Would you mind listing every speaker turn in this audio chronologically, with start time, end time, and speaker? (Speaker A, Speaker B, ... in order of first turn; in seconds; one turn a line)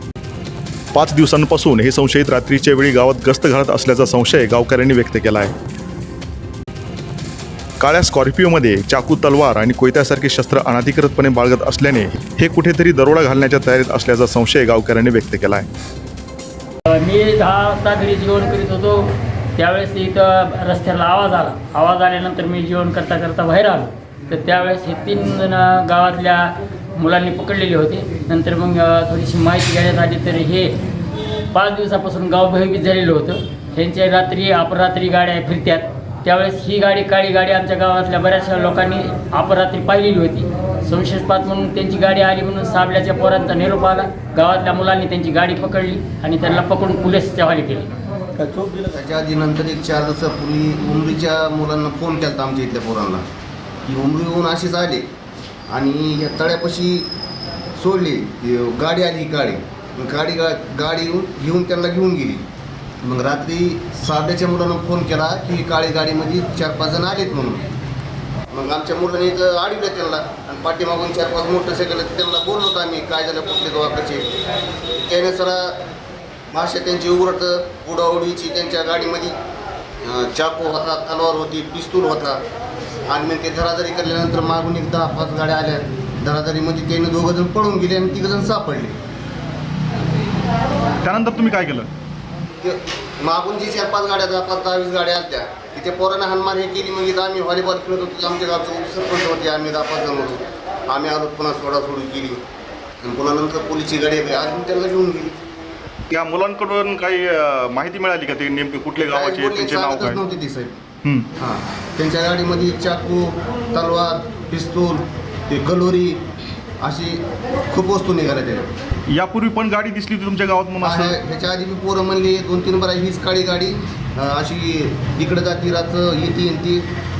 Speaker A: 0.9-5.5
Speaker A: 7.8-15.7
Speaker B: 16.9-30.8
Speaker B: 31.5-48.8
Speaker C: 48.8-53.2
Speaker C: 53.8-55.0
Speaker C: 55.7-57.1
Speaker C: 57.8-62.4
Speaker C: 63.0-67.6
Speaker C: 68.5-74.3
Speaker C: 75.0-75.8
Speaker C: 76.5-79.3
Speaker C: 80.0-82.4
Speaker C: 83.1-89.0
Speaker A: 91.0-91.9
Speaker C: 92.6-102.4
Speaker C: 103.0-105.3
Speaker A: 106.1-110.2
Speaker C: 108.9-110.8
Speaker C: 111.4-116.2
Speaker C: 116.8-118.7
Speaker A: 119.1-121.2
Speaker C: 120.8-126.9